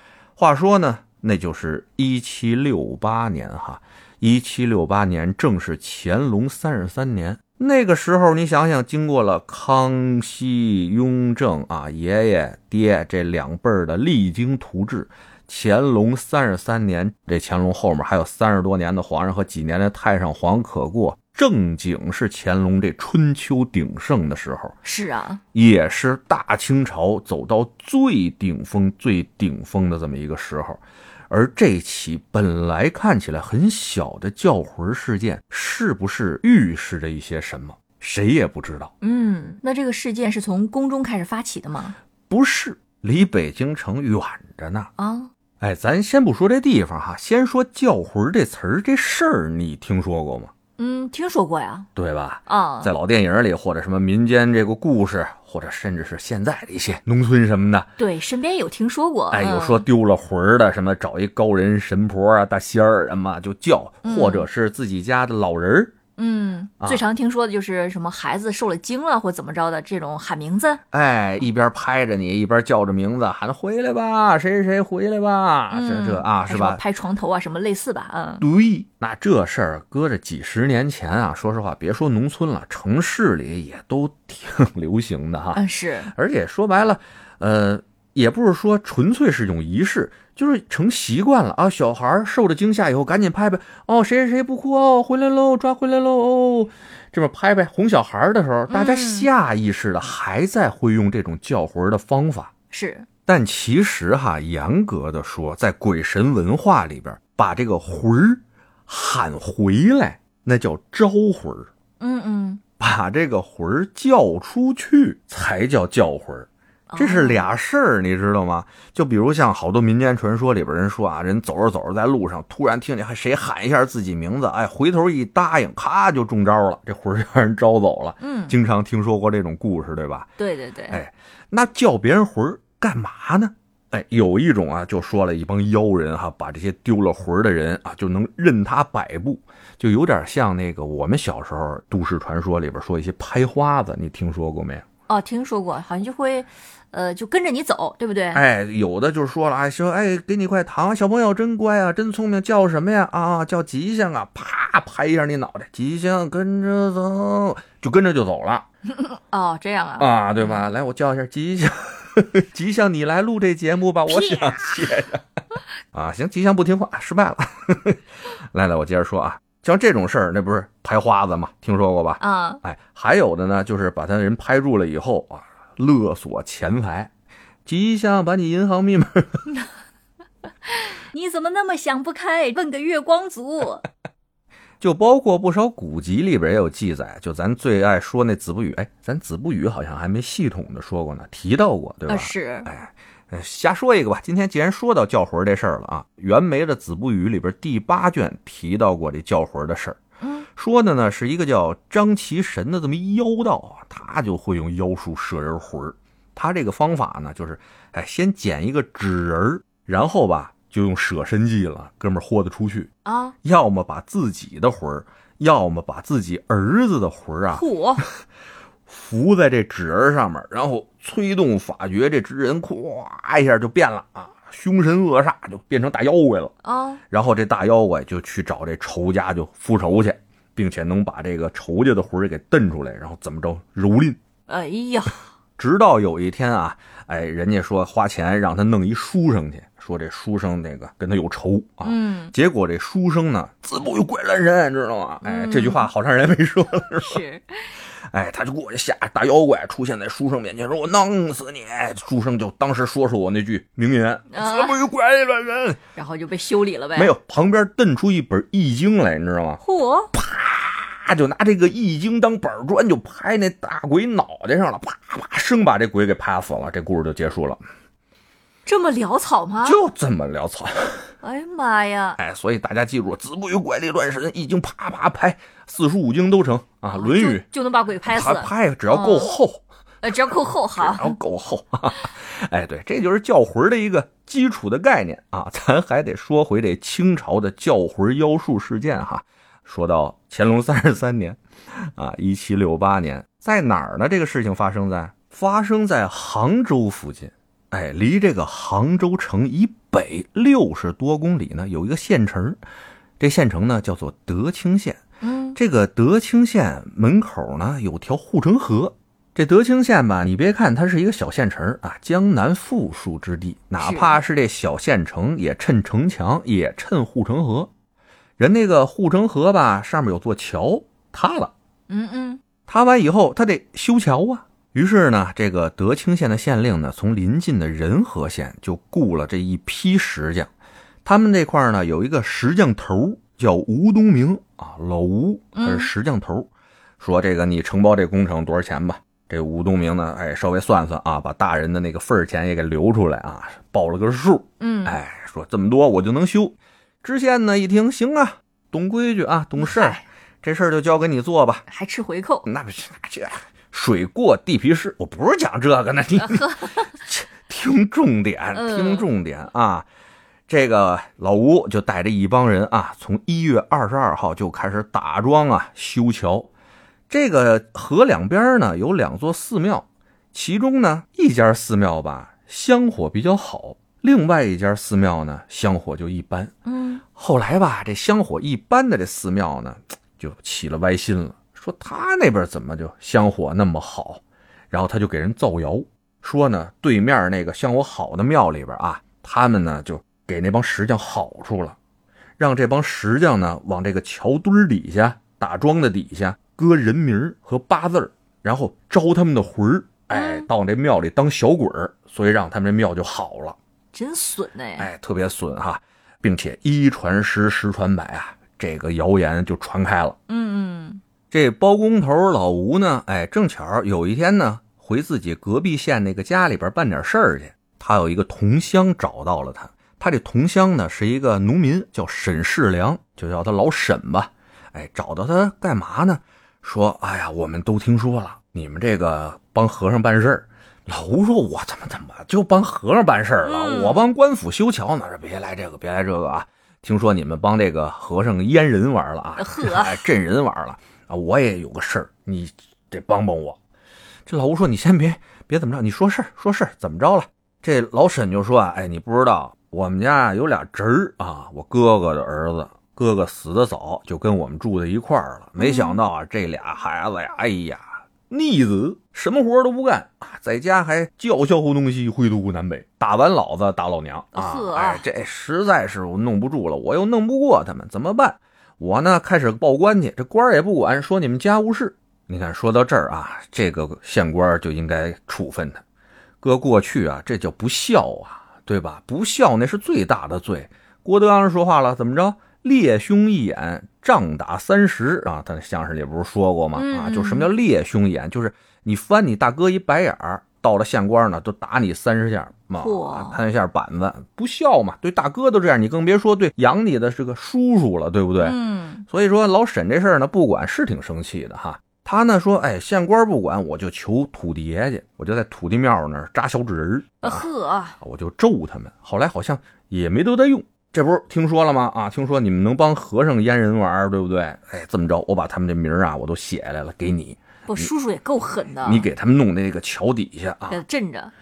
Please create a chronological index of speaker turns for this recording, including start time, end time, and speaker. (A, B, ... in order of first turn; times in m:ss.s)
0:00.4-0:24.8 A
0:24.8-0:25.4 B
0:25.5-0:38.9 A
0:39.0-0:42.0 B
0:42.3-0:44.9 A
0:45.0-0:45.3 B
0:45.6-0:50.5 A
0:50.8-0:51.9 B
0:52.0-0:57.9 A
0:52.5-0:52.9 B
0:58.0-0:59.9 B
0:59.3-1:06.0 A
1:04.0-1:04.5 B
1:06.2-1:10.8 B
1:10.9-1:16.8 A
1:15.7-1:18.5 B
1:18.4-1:25.6 A
1:25.5-1:26.1 B
1:26.1-1:42.5 A
1:38.7-1:39.3 B
1:42.7-1:43.1 B
1:43.3-1:51.7 A
1:52.0-1:52.6 B
1:52.8-2:10.3 A
1:56.9-1:57.5 B
2:08.2-2:08.6 B
2:10.4-2:11.0 B
2:10.9-2:24.9 A
2:25.1-2:28.4 B
2:28.3-2:38.7 A
2:38.9-2:40.6 B
2:40.0-2:45.2 A
2:44.1-2:44.7 B
2:45.9-2:57.1 A
2:52.2-2:52.6 B
2:57.7-2:59.4 A
3:00.7-3:03.8 B
3:04.8-3:20.0 A
3:12.1-3:12.7 B
3:20.2-3:20.5 B
3:20.6-3:32.9 A
3:33.0-3:33.4 B
3:33.4-3:38.1 A
3:37.5-3:38.0 B
3:38.9-3:46.5 A
3:46.6-3:47.0 B
3:47.1-3:54.2 A
3:54.5-3:55.3 B
3:55.6-4:07.2 A
4:01.8-4:02.3 B
4:05.2-4:05.9 B
4:07.0-4:07.8 B
4:08.1-4:15.8 A
4:14.3-4:14.8 B
4:16.0-4:17.1 B
4:17.0-4:19.6 A
4:19.6-4:20.1 B
4:20.1-4:27.6 A
4:28.7-4:29.8 B
4:29.6-4:31.0 A
4:31.2-4:32.2 B
4:32.2-4:37.4 A
4:36.9-4:39.3 B
4:38.1-5:02.6 A
4:40.0-4:41.2 B
5:03.2-5:05.0 A
5:05.2-5:05.6 B
5:05.6-5:17.7 A
5:13.8-5:14.2 B
5:18.4-5:21.5 A
5:21.9-5:22.4 B
5:22.7-5:30.5 A
5:31.0-5:51.7 A
5:35.6-5:35.9 B
5:44.6-5:45.0 B
5:49.6-5:50.0 B
5:51.7-5:52.5 B
5:52.5-5:59.9 A
5:56.2-5:56.9 B
5:58.5-5:59.1 B
6:00.5-6:06.5 A
6:07.1-6:16.5 A
6:16.7-6:17.0 B
6:17.2-6:31.8 A
6:32.4-6:43.6 A
6:40.1-6:40.5 B
6:43.9-6:44.9 B
6:44.8-6:50.2 A
6:50.3-6:51.0 B
6:51.3-7:23.6 A
7:13.4-7:14.1 B
7:19.4-7:20.1 B
7:24.3-7:55.8 A
7:35.6-7:36.0 B
7:44.3-7:45.0 B
7:56.4-8:27.5 A
8:06.8-8:07.5 B
8:12.8-8:13.4 B
8:18.4-8:19.0 B
8:27.2-8:28.0 B
8:28.0-8:37.9 A
8:37.7-8:39.1 B
8:38.8-8:40.8 A
8:40.7-8:41.3 B